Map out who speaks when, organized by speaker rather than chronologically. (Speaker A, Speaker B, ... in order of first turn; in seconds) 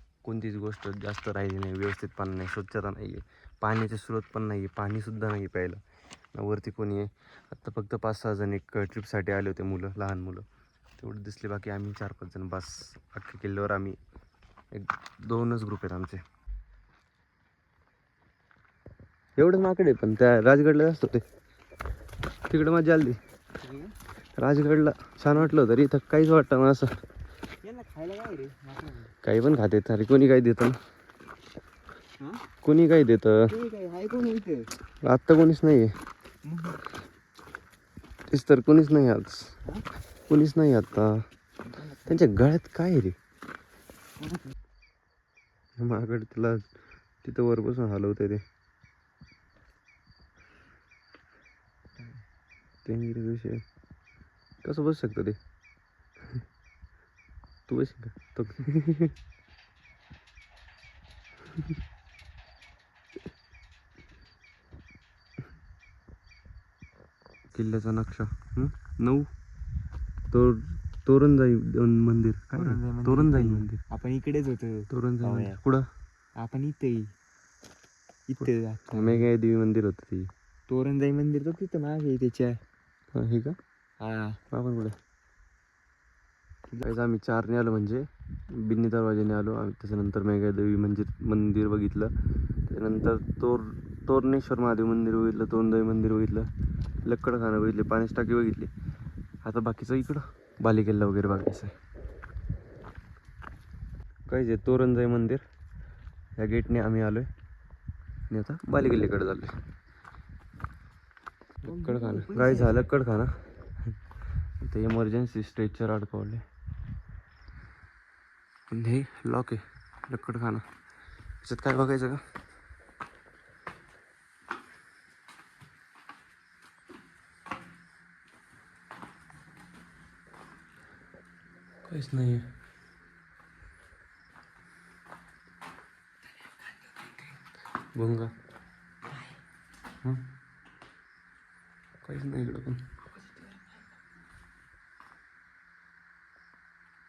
Speaker A: 0.2-5.8, 6.3-10.5, 11.0-14.0, 14.7-16.2, 19.4-21.2, 22.5-23.2, 24.4-27.0, 29.2-30.8, 32.6-33.5, 35.0-35.9, 38.3-39.5, 40.3-41.2, 42.1-43.2, 45.8-46.7, 47.2-48.4, 52.9-53.6, 54.6-55.4, 57.7-59.1, 67.5-69.3, 70.3-73.8, 74.9-75.9, 78.9-80.3, 83.1-83.6, 84.5-85.0, 86.8-92.1, 92.7-96.5, 97.0-98.7, 99.4-101.7, 104.3-105.4, 106.4-107.3, 108.3-109.5, 111.7-113.4, 114.6-116.4, 118.7-120.7, 121.4-122.2, 131.8-132.5, 137.9-138.3, 142.0-142.8
Speaker B: 23.6-23.9, 27.6-29.1, 33.5-34.7, 36.5-36.8, 41.6-42.3, 44.2-44.5, 52.0-52.2, 72.5-75.6, 76.4-77.1, 78.3-79.3, 80.7-82.6, 84.0-84.4, 111.6-112.8